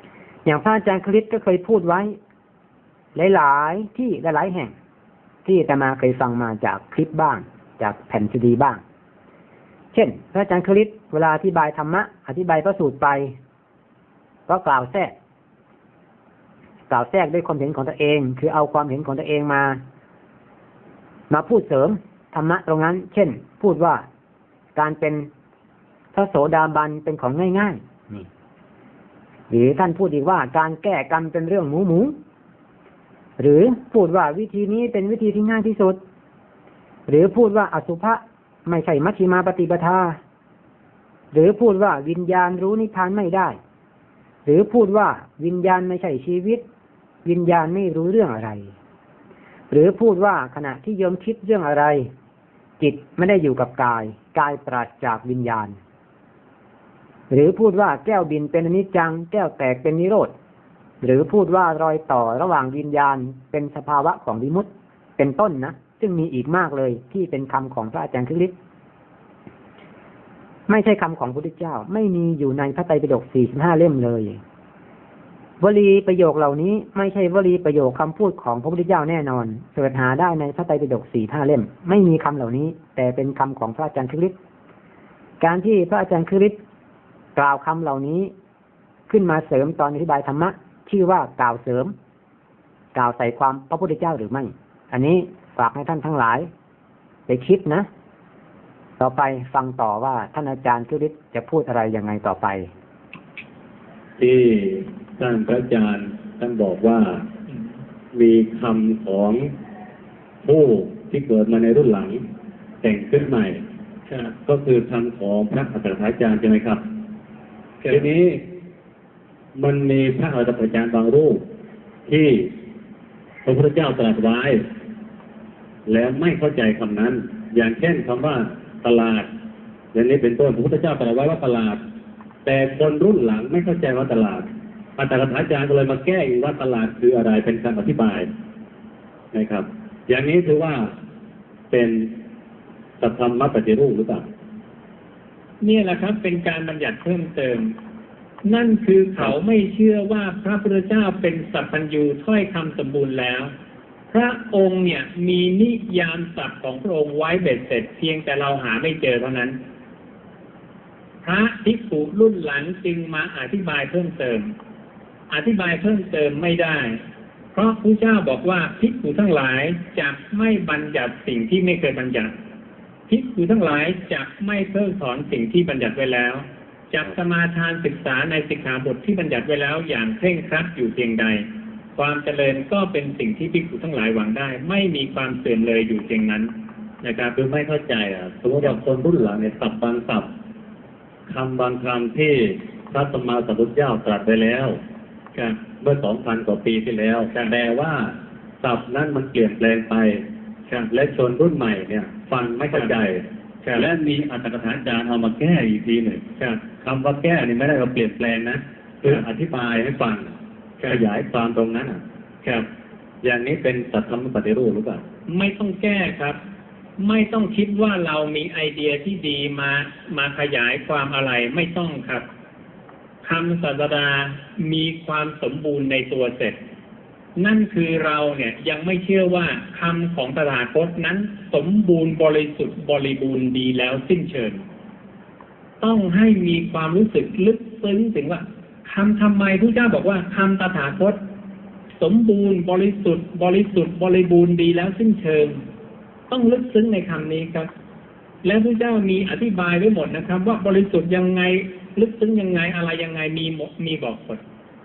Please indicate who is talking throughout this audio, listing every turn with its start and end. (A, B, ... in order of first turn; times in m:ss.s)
0:00.5-0:02.2 A
0:03.2-0:04.7 A
0:05.4-0:08.8 A
0:09.9-0:13.3 A
0:14.5-0:15.1 A
0:16.9-0:19.8 A
0:21.3-0:24.0 A
0:24.8-0:25.3 A
0:26.1-0:28.3 A
0:29.5-0:32.2 A
0:33.4-0:36.0 A
0:37.1-0:40.2 A
0:41.3-0:43.6 A
0:44.5-0:46.6 A
0:47.2-0:48.7 A
0:49.7-0:52.1 A
0:52.8-0:55.8 A
0:57.3-1:00.3 A
1:01.0-1:08.6 A
1:10.7-1:14.4 A
1:15.6-1:24.3 A
1:25.4-1:26.6 A
1:27.4-1:28.3 A
1:29.1-1:31.9 A
1:32.9-1:36.5 A
1:37.3-1:37.9 A
1:39.0-1:42.7 A
1:44.2-1:47.3 B
1:48.1-1:49.5 B
1:50.4-1:52.2 B
1:52.8-1:53.6 B
1:54.1-1:54.4 C
1:54.5-1:56.8 B
1:57.8-1:58.1 C
1:57.9-1:58.4 B
1:59.6-2:01.4 B
2:02.1-2:02.5 B
2:03.4-2:04.6 B
2:05.9-2:09.3 B
2:09.9-2:11.8 B
2:12.4-2:18.3 B
2:19.3-2:20.9 B
2:21.7-2:22.2 B
2:23.0-2:24.3 B
2:25.6-2:27.7 C
2:28.4-2:33.5 C
2:34.1-2:39.6 C
2:41.2-2:44.5 C
2:45.3-2:47.0 C
2:47.5-2:52.3 C
2:53.1-3:07.4 C
3:07.4-3:10.3 B
3:11.3-3:14.8 B
3:15.8-3:20.2 B
3:20.9-3:26.2 B
3:26.4-3:26.6 C
3:26.8-3:32.0 B
3:33.2-3:35.0 B
3:35.3-3:36.4 C
3:37.0-3:42.3 C
3:43.2-3:46.6 C
3:47.4-3:54.6 C
3:55.8-4:01.2 C
4:02.0-4:05.6 C
4:06.3-4:07.7 C
4:08.4-4:14.4 C